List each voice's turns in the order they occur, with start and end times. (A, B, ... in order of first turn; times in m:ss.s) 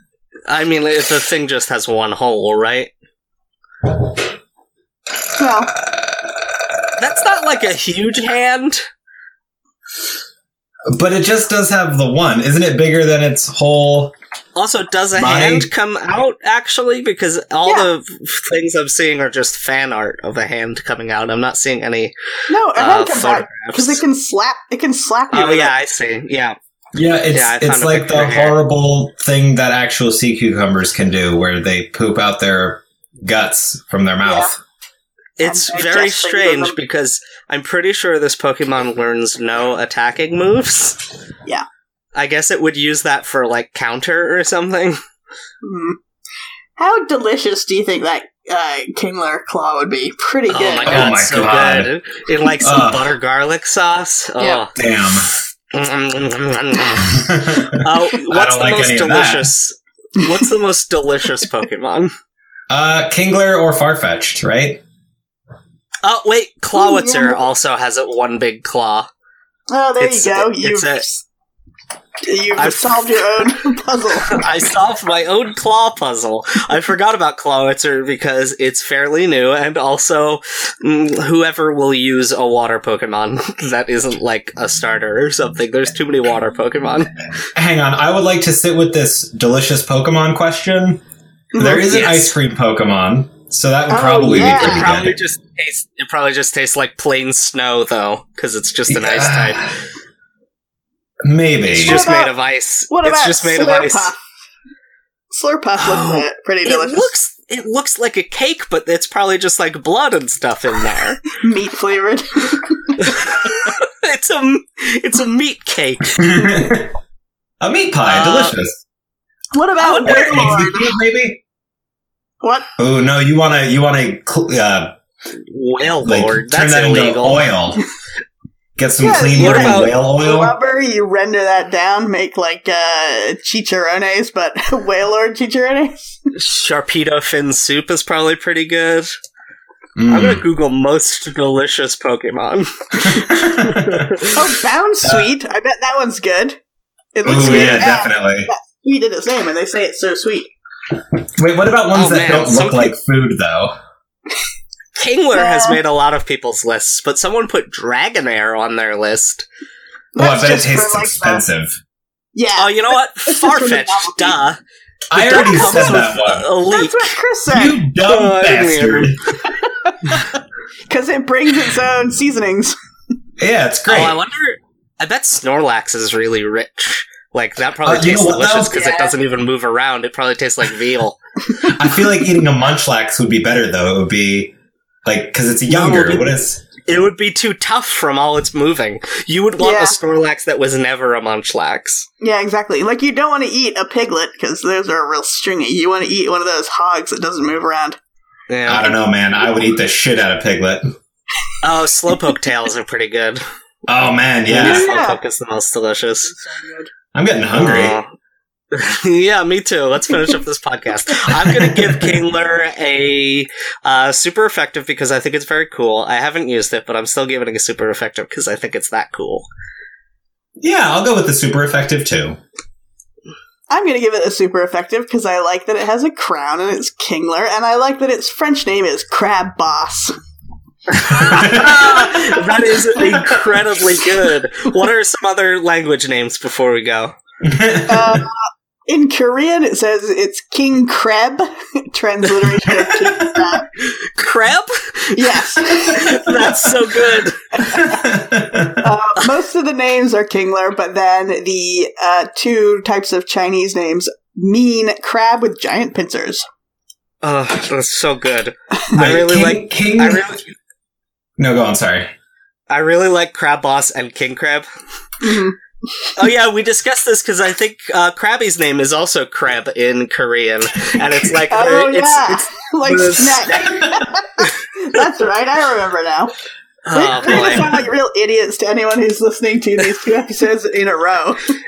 0:00.5-0:02.9 A
0:05.4-0:05.7 B
0:05.8-0:06.6 C
0:07.0-0:08.8 A
0:10.9-0:14.1 C
0:14.6-0:22.1 A
0:15.2-0:15.7 C
0:22.5-0:25.7 B
0:22.7-0:24.0 A
0:25.3-0:26.6 A
0:26.9-0:34.6 C
0:27.3-0:28.6 A
0:34.2-0:34.5 B
0:35.4-0:41.0 A
0:35.4-0:36.8 B
0:42.1-0:45.0 A
0:45.6-0:46.0 B
0:46.8-0:51.0 B
0:50.5-0:54.7 A
0:50.8-0:51.9 C
0:52.6-0:53.0 C
0:54.8-0:55.3 C
0:55.7-0:57.2 A
0:57.2-0:59.5 C
0:57.8-1:02.1 A
1:02.7-1:04.8 C
1:06.0-1:09.1 A
1:06.7-1:07.4 B
1:09.7-1:11.0 B
1:10.0-1:11.1 A
1:12.3-1:14.5 B
1:12.6-1:13.5 A
1:14.2-1:27.1 A
1:27.6-1:31.0 C
1:31.5-1:32.0 B
1:31.6-1:35.2 C
1:31.9-1:32.3 A
1:33.9-1:34.9 B
1:34.6-1:39.7 A
1:38.9-1:39.7 C
1:41.2-1:42.0 C
1:41.8-1:44.1 A
1:41.8-1:42.4 B
1:42.9-1:44.2 B
1:45.3-1:47.1 B
1:45.8-1:51.2 A
1:51.4-1:53.3 B
1:53.0-1:56.2 A
1:56.2-1:56.9 C
1:56.3-1:56.8 B
1:57.6-1:58.8 C
1:58.0-1:58.6 A
1:59.5-2:00.9 B
1:59.8-2:00.6 A
2:00.0-2:01.4 C
2:02.4-2:02.7 B
2:02.8-2:04.9 C
2:05.4-2:07.4 A
2:06.0-2:07.8 C
2:08.8-2:10.6 C
2:09.0-2:16.2 B
2:09.3-2:09.9 A
2:16.4-2:19.1 A
2:20.0-2:20.4 C
2:20.1-2:24.4 A
2:23.0-2:24.2 C
2:24.3-2:26.6 B
2:25.0-2:25.3 C
2:27.2-2:30.5 B
2:27.2-2:28.5 C
2:31.4-2:33.7 C
2:31.9-2:32.9 A
2:35.0-2:39.4 A
2:35.3-2:35.8 B
2:40.1-2:41.4 B
2:40.2-2:41.8 C
2:42.3-2:44.4 B
2:42.6-2:44.6 A
2:45.1-2:46.5 C
2:45.2-2:46.1 B
2:45.2-2:47.1 A
2:46.7-2:47.9 B
2:47.5-2:49.2 C
2:48.0-2:49.2 A
2:49.5-2:50.3 B
2:50.9-2:52.8 B
2:53.4-2:54.2 C
2:53.9-3:01.2 A
2:57.8-2:58.8 C
2:58.7-2:59.1 B
3:01.6-3:04.5 C
3:05.0-3:06.6 C
3:05.7-3:06.3 A
3:06.9-3:12.0 A
3:09.6-3:10.0 B
3:12.2-3:18.0 B
3:18.5-3:18.9 A
3:18.7-3:20.9 C
3:21.6-3:26.3 A
3:23.9-3:24.9 C
3:24.6-3:25.2 B
3:26.2-3:26.9 B
3:27.2-3:28.0 C
3:27.5-3:28.1 A
3:28.7-3:39.5 A
3:31.4-3:32.1 C
3:40.6-3:42.4 C
3:43.7-3:50.1 B
3:50.9-3:57.1 A
3:51.1-3:52.3 C
3:57.4-3:58.2 C
3:57.9-3:58.4 B
3:58.9-4:03.7 B
4:03.0-4:03.4 C
4:03.8-4:07.4 A
4:05.2-4:06.2 B
4:07.6-4:08.2 B
4:07.8-4:08.8 C
4:08.8-4:16.4 B
4:17.2-4:20.5 A
4:18.8-4:19.0 B
4:18.9-4:20.3 C
4:21.4-4:22.1 C
4:22.7-4:24.7 A
4:25.2-4:25.6 B
4:26.2-4:34.5 A
4:31.5-4:36.3 B
4:36.8-4:37.8 A
4:36.9-4:41.4 B